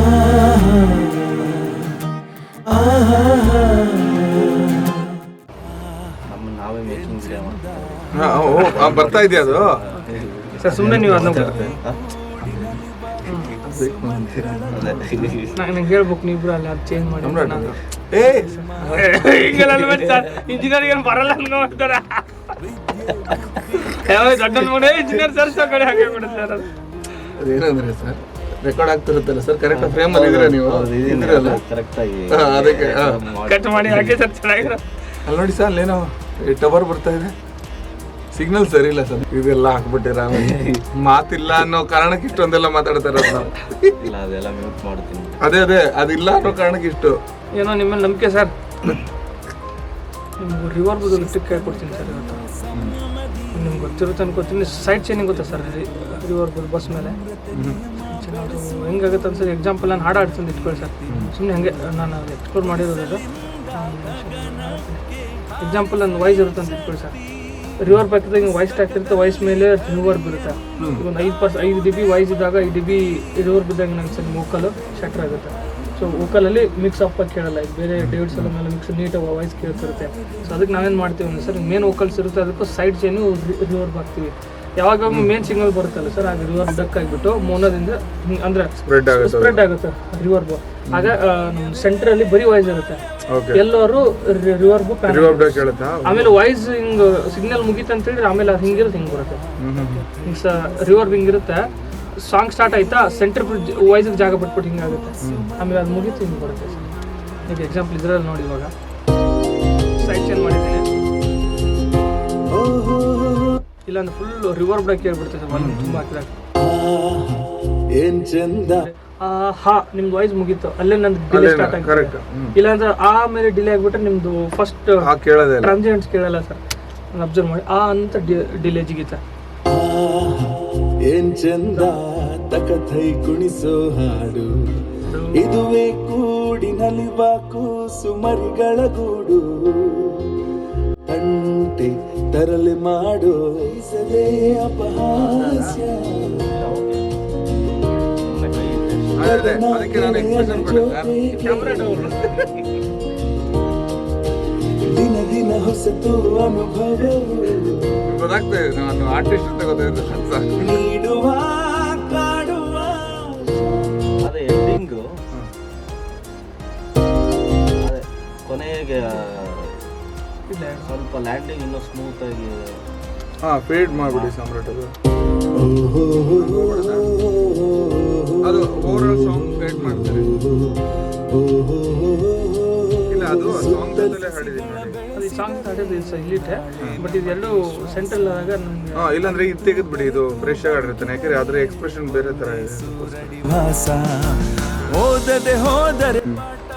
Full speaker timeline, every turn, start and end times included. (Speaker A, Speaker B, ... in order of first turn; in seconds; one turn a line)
Speaker A: 6.2-12.0
Speaker B: 8.1-9.8
Speaker C: 9.9-11.6
Speaker B: 10.7-11.5
Speaker B: 12.4-15.4
Speaker C: 13.2-13.6
Speaker D: 14.4-14.9
Speaker A: 14.7-15.6
Speaker C: 15.5-22.6
Speaker B: 17.2-19.6
Speaker A: 23.1-23.5
Speaker C: 23.6-26.7
Speaker B: 27.2-31.6
Speaker A: 29.7-34.7
Speaker B: 32.3-33.2
Speaker C: 33.5-34.8
Speaker B: 35.2-37.3
Speaker B: 38.3-44.0
Speaker A: 40.3-40.8
Speaker A: 44.0-45.4
Speaker B: 45.4-47.2
Speaker C: 47.5-48.5
Speaker C: 50.4-52.4
Speaker C: 53.5-57.2
Speaker B: 57.5-57.8
Speaker C: 58.0-65.0
Speaker C: 65.6-67.2
Speaker C: 67.8-99.4
Speaker B: 70.8-71.0
Speaker B: 78.0-78.5
Speaker B: 88.8-89.6
Speaker B: 90.9-91.1
Speaker B: 93.3-93.6
Speaker B: 95.1-96.3
Speaker B: 99.6-100.1
Speaker C: 100.1-106.9
Speaker B: 105.2-105.5
Speaker C: 107.5-108.7
Speaker C: 110.0-110.9
Speaker D: 112.5-113.6
Speaker C: 113.8-116.3
Speaker B: 115.5-116.0
Speaker D: 116.6-118.9
Speaker C: 118.7-125.0
Speaker B: 121.3-122.5
Speaker B: 125.0-125.7
Speaker C: 125.6-126.6
Speaker C: 127.1-129.2
Speaker D: 129.7-140.4
Speaker C: 131.7-132.0
Speaker C: 135.1-135.5
Speaker D: 141.1-146.4
Speaker A: 145.1-147.1
Speaker A: 148.2-149.3
Speaker B: 149.2-151.1
Speaker D: 149.2-152.0
Speaker C: 151.4-152.6
Speaker A: 151.6-152.5
Speaker D: 154.8-158.0
Speaker B: 158.1-160.8
Speaker D: 160.6-163.8
Speaker A: 164.2-165.1
Speaker A: 167.8-169.8
Speaker C: 170.5-170.9
Speaker A: 170.8-172.8
Speaker B: 173.4-174.9
Speaker A: 173.9-174.3
Speaker D: 175.5-184.1
Speaker B: 176.3-177.1
Speaker B: 178.4-180.3
Speaker B: 183.1-185.0
Speaker C: 185.1-189.2
Speaker B: 189.0-193.4
Speaker D: 193.4-196.2